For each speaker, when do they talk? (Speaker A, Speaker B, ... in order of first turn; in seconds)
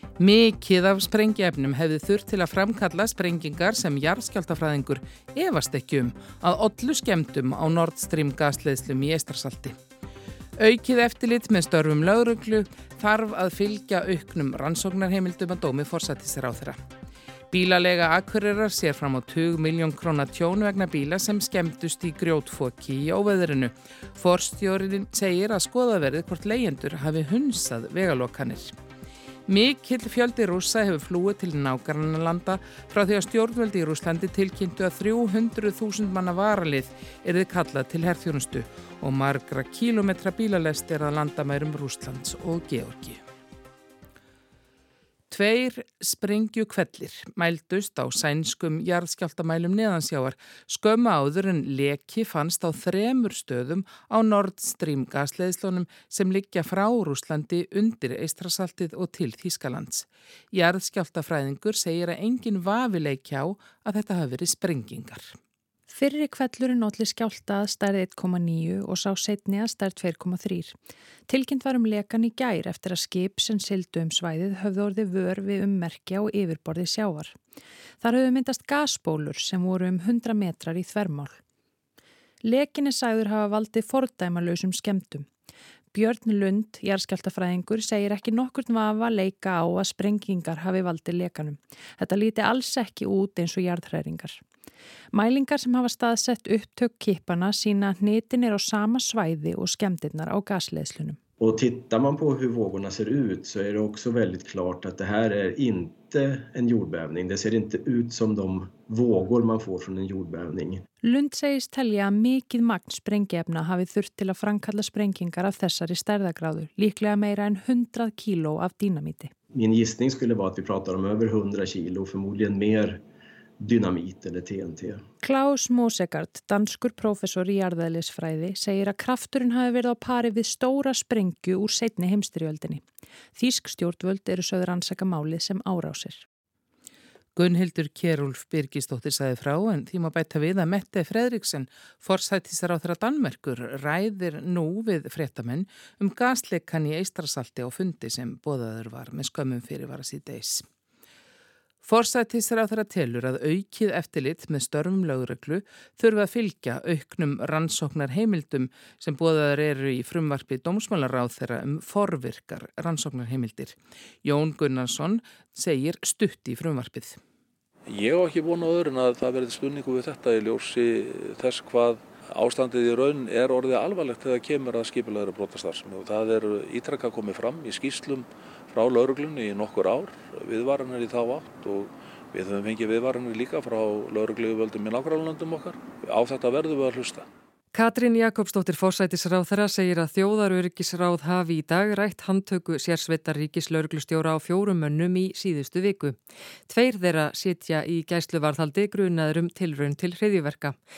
Speaker A: 0.2-9.8, 10.6-16.8, 17.5-28.7, 29.5-43.2, 45.3-65.3, 137.3-150.7, 151.8-167.2
Speaker B: 65.9-70.8, 71.3-77.4, 78.0-81.4, 82.4-85.3, 85.9-94.4, 95.1-101.2, 111.0-119.3, 125.2-132.8, 133.3-136.2
Speaker C: 101.4-110.8, 119.5-123.0, 123.6-125.0
Speaker D: 167.9-187.2
Speaker E: 187.7-196.2, 196.7-200.8